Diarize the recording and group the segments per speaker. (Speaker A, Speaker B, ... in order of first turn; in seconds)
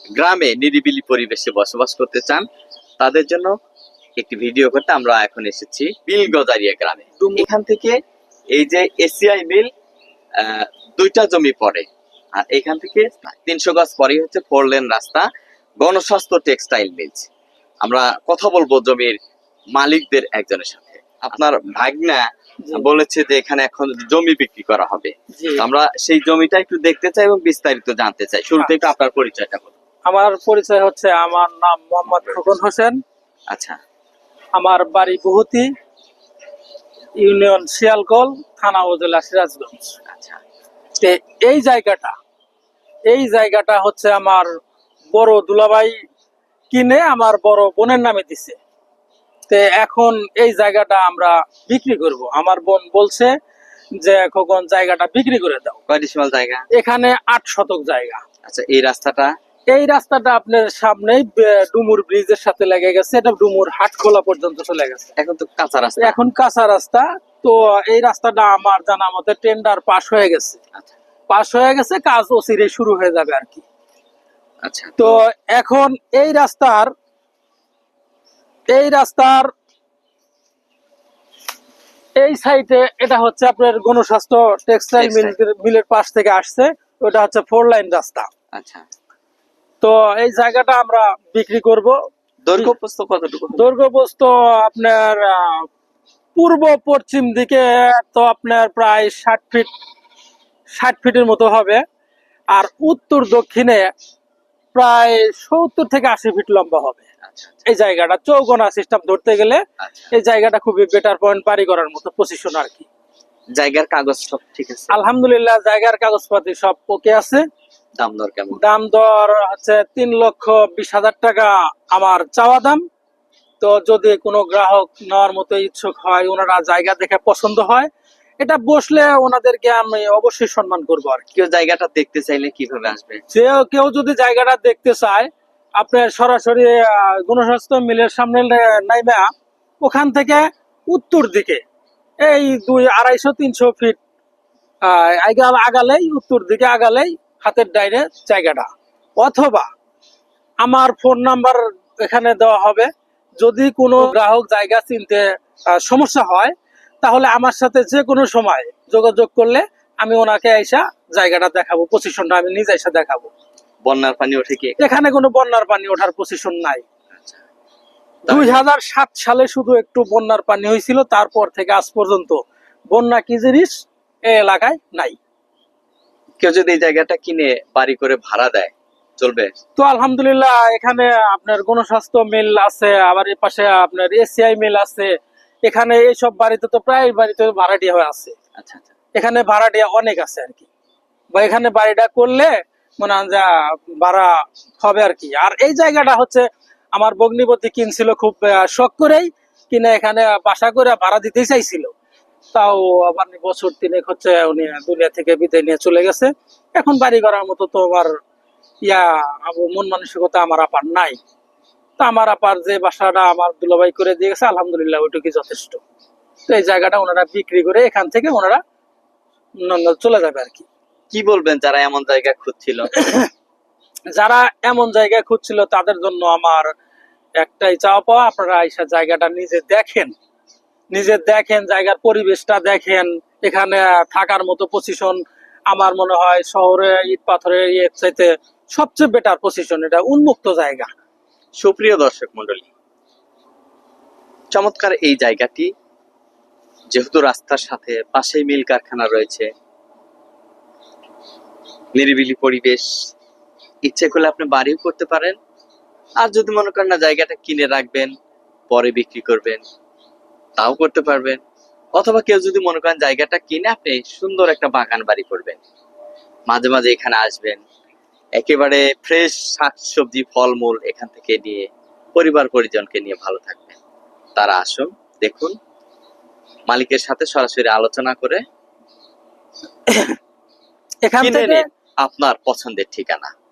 Speaker A: 0.2-2.5, 3.0-3.5, 4.2-8.0, 8.6-9.7, 10.4-15.3, 15.8-17.3, 17.8-19.2, 19.8-29.8, 33.5-33.8, 40.1-40.4, 55.9-56.6, 58.5-59.3, 65.2-66.2, 74.6-75.2, 85.0-85.3, 88.5-88.8, 92.4-93.6, 107.2-107.6, 109.8-110.1, 113.5-114.9, 118.0-118.6, 131.3-133.2, 163.9-164.8, 167.2-167.4, 168.3-168.6, 176.4-179.5, 188.6-188.9, 221.1-222.9, 241.6-242.7, 244.5-245.7, 246.9-249.5, 251.9-252.9, 253.8-255.4, 256.2-258.1, 258.7-259.6, 260.6-261.4, 262.0-265.6, 266.5-267.6, 268.4-273.8, 274.4-275.6, 276.7-278.4, 281.2-283.3
Speaker B: 7.2-7.5, 25.3-25.6, 28.6-28.9, 30.1-33.0, 34.6-35.7, 37.2-39.9, 41.0-42.1, 43.1-44.5, 45.1-46.0, 46.7-48.6, 49.5-53.3, 54.0-55.8, 56.7-58.2, 59.7-65.1, 66.0-70.6, 71.3-73.7, 75.0-76.9, 78.7-79.5, 82.2-88.3, 89.8-92.0, 93.5-95.7, 96.4-99.7, 100.8-101.8, 102.5-103.9, 104.7-107.0, 107.7-109.6, 110.1-112.9, 114.9-117.4, 118.6-122.8, 123.6-127.9, 128.4-131.2, 133.3-139.3, 139.8-141.6, 142.2-144.0, 144.8-148.7, 149.2-149.7, 150.6-152.9, 153.4-155.2, 155.8-163.3, 164.8-166.8, 168.3-175.2, 179.8-185.1, 185.6-188.3, 189.2-190.7, 191.3-201.9, 202.5-208.1, 208.8-211.2, 212.0-215.8, 216.5-218.6, 219.6-220.7, 223.0-223.3, 224.1-226.7, 227.4-230.1, 230.9-235.2, 235.7-240.9, 279.9-280.1, 281.1-281.6